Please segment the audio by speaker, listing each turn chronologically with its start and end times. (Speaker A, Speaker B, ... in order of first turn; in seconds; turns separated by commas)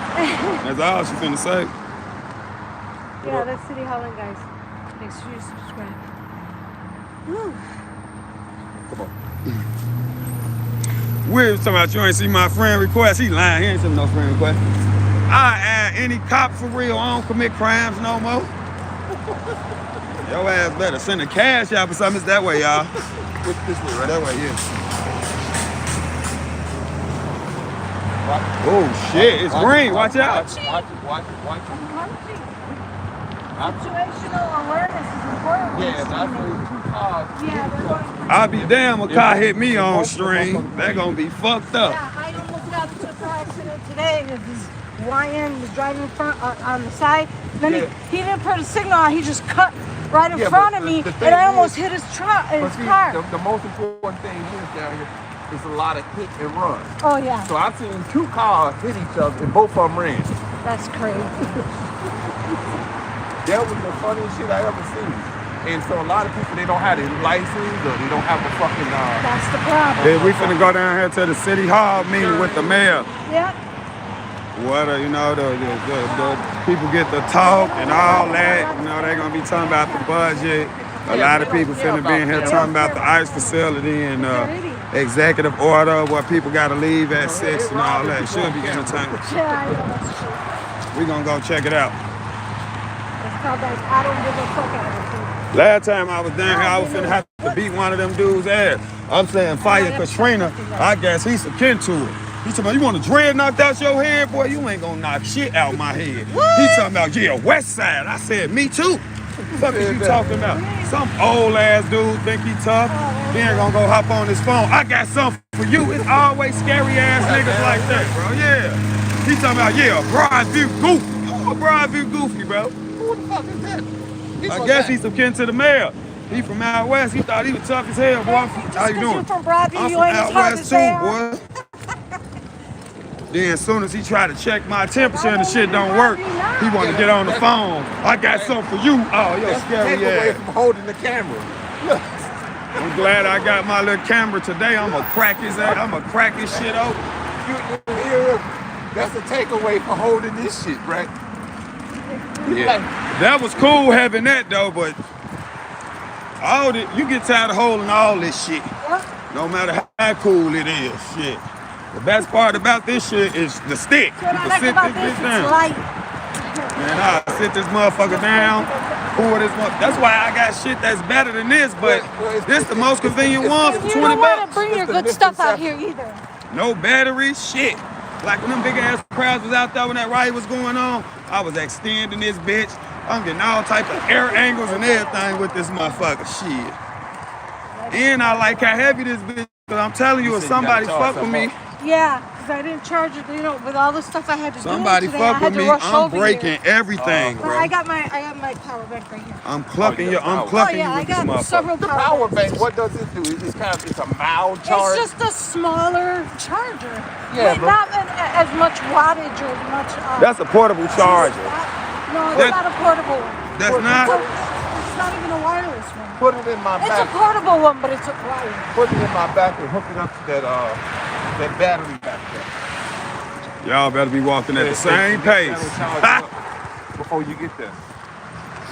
Speaker A: 0.2-0.6, Speaker B: 0.6-1.7, Speaker A: 3.2-6.0, Speaker C: 3.2-3.5, Speaker A: 7.3-7.6, Speaker C: 8.9-9.1, Speaker B: 11.2-14.6, Speaker B: 15.3-18.5, Speaker C: 19.1-19.6, Speaker B: 20.2-22.9, Speaker C: 22.6-24.2, Speaker B: 24.0-24.6, Speaker C: 28.2-28.6, Speaker B: 28.6-30.5, Speaker C: 29.1-31.9, Speaker A: 29.9-30.9, Speaker A: 31.7-32.8, Speaker C: 33.6-33.8, Speaker A: 33.6-36.6, Speaker C: 35.7-38.1, Speaker A: 37.3-38.8, Speaker B: 38.3-42.0, Speaker C: 39.1-41.1, Speaker A: 41.8-53.2, Speaker C: 42.6-43.6, Speaker C: 47.6-47.9, Speaker C: 50.3-51.8, Speaker C: 52.6-56.9, Speaker A: 57.0-57.5, Speaker C: 57.4-60.3, Speaker A: 60.6-61.7, Speaker C: 63.5-69.3, Speaker A: 69.2-70.2, Speaker C: 69.9-70.8, Speaker B: 70.0-73.1, Speaker C: 72.0-72.9, Speaker A: 73.3-73.6, Speaker B: 74.5-89.2, Speaker A: 75.7-76.6, Speaker A: 77.3-84.9, Speaker C: 81.1-82.7, Speaker C: 87.2-89.2, Speaker A: 89.2-90.5, Speaker B: 90.9-92.0, Speaker A: 93.2-95.4, Speaker B: 95.5-122.7, Speaker A: 96.4-97.6, Speaker A: 99.6-101.0, Speaker A: 106.3-106.9, Speaker C: 109.5-110.2, Speaker A: 110.1-111.0, Speaker A: 112.9-113.8, Speaker C: 117.2-118.1, Speaker C: 122.9-125.0, Speaker B: 124.5-131.4, Speaker A: 128.2-131.2, Speaker B: 133.3-140.4, Speaker A: 134.9-136.8, Speaker C: 136.8-137.5, Speaker C: 138.3-138.6, Speaker C: 139.4-142.2, Speaker C: 142.8-143.6, Speaker B: 142.8-147.0, Speaker C: 146.5-146.8, Speaker C: 147.4-151.1, Speaker A: 152.1-152.7, Speaker C: 152.4-152.9, Speaker B: 152.5-155.0, Speaker B: 156.4-158.7, Speaker A: 158.8-159.1, Speaker B: 159.3-161.4, Speaker B: 161.9-165.6, Speaker A: 164.2-165.8, Speaker A: 166.3-167.4, Speaker B: 166.8-174.5, Speaker A: 168.0-170.1, Speaker C: 171.8-175.8, Speaker A: 173.4-176.2, Speaker B: 176.5-186.8, Speaker A: 183.9-186.2, Speaker A: 187.7-189.0, Speaker B: 187.9-191.6, Speaker C: 190.2-191.5, Speaker A: 191.8-196.5, Speaker B: 194.6-197.7, Speaker C: 197.0-197.7, Speaker A: 197.4-199.4, Speaker B: 199.4-201.7, Speaker C: 199.8-200.7, Speaker A: 200.4-202.5, Speaker C: 201.8-205.1, Speaker A: 204.7-216.2, Speaker C: 207.3-207.8, Speaker B: 210.2-211.5, Speaker B: 212.3-212.6, Speaker B: 213.6-214.2, Speaker C: 213.7-214.3, Speaker C: 216.2-217.1, Speaker A: 216.8-218.8, Speaker C: 218.7-220.8, Speaker C: 221.3-222.5, Speaker B: 223.6-226.2, Speaker C: 224.5-226.4, Speaker C: 226.9-227.8